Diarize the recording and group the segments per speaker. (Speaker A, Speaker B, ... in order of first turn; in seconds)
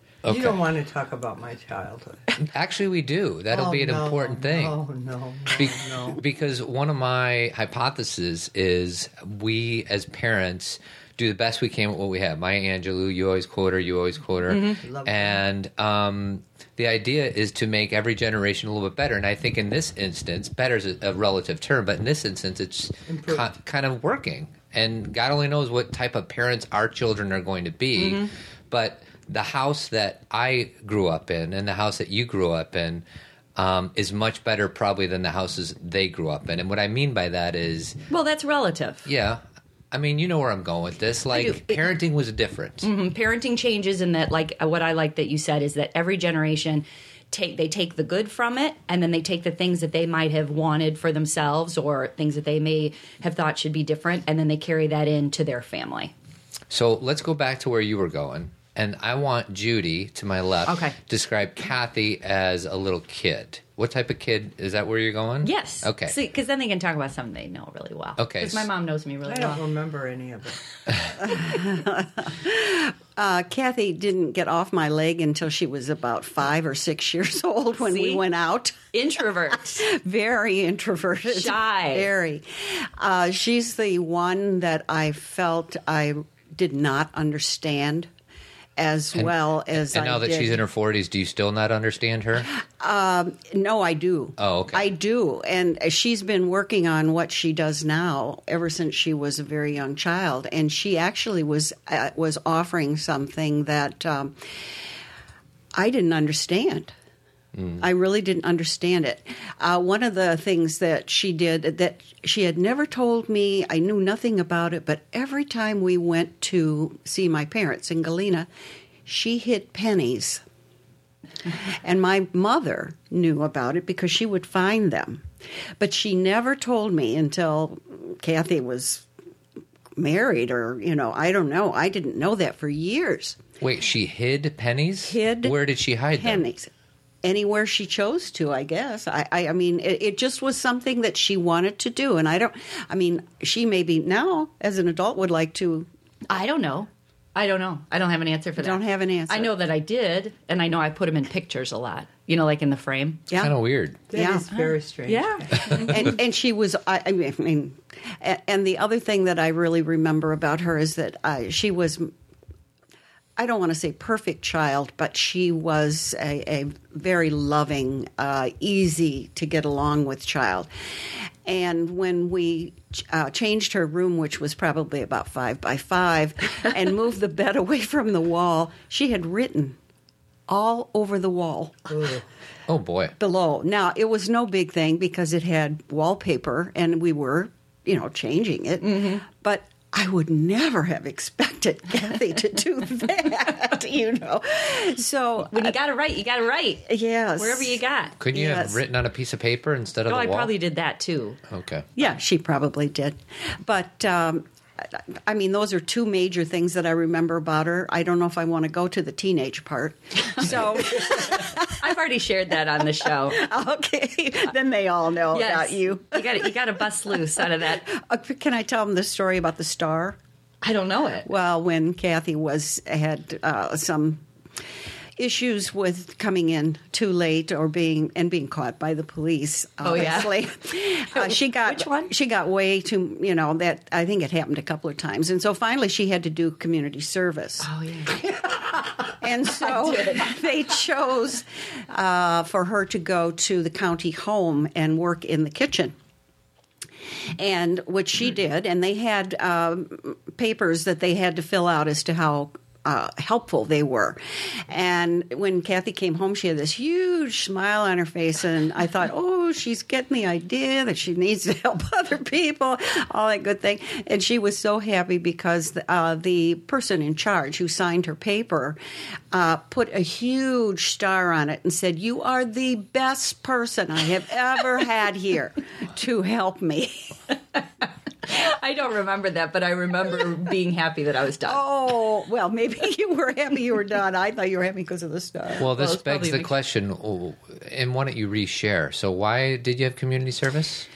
Speaker A: 0.2-0.6, 2.4-4.7, 5.5-33.0, 33.5-38.0, 39.0-42.9, 56.7-66.2, 68.2-68.7, 89.1-92.5, 94.4-94.9, 107.6-107.8, 133.6-136.4, 153.3-154.0, 182.7-183.2, 198.2-200.5, 201.5-201.9, 285.6-290.9
Speaker B: 0.2-2.3, 3.5-6.2, 14.8-15.4, 23.1-23.5, 69.2-70.6, 154.1-155.8, 181.9-182.2
Speaker C: 14.5-14.8, 28.0-28.3, 38.1-39.1, 41.3-42.0, 42.8-56.1, 60.7-61.0, 65.4-69.6, 77.8-78.2, 78.9-79.8, 81.3-82.1, 146.3-153.2, 154.5-156.2, 188.8-189.2, 195.5-196.8, 197.4-198.2, 200.1-201.4, 210.3-213.4, 215.3-217.8, 220.6-221.3, 229.8-230.4, 231.1-232.1, 237.6-238.3, 239.4-240.3, 278.2-281.6, 285.6-286.5
Speaker D: 71.2-78.8, 79.7-88.1, 88.8-90.6, 92.4-104.6, 105.7-106.9, 107.8-118.5, 119.0-120.4, 121.6-129.1, 129.9-133.4, 135.1-135.6, 136.1-136.7, 137.2-145.9, 148.6-149.5, 153.3-153.5, 154.1-154.5, 155.7-162.1, 163.4-179.8, 180.5-181.9, 183.2-195.7, 196.8-198.8, 202.0-211.8, 213.2-220.2, 221.2-224.2, 225.2-237.7, 239.1-245.9, 247.3-268.8, 269.3-277.2, 281.4-285.7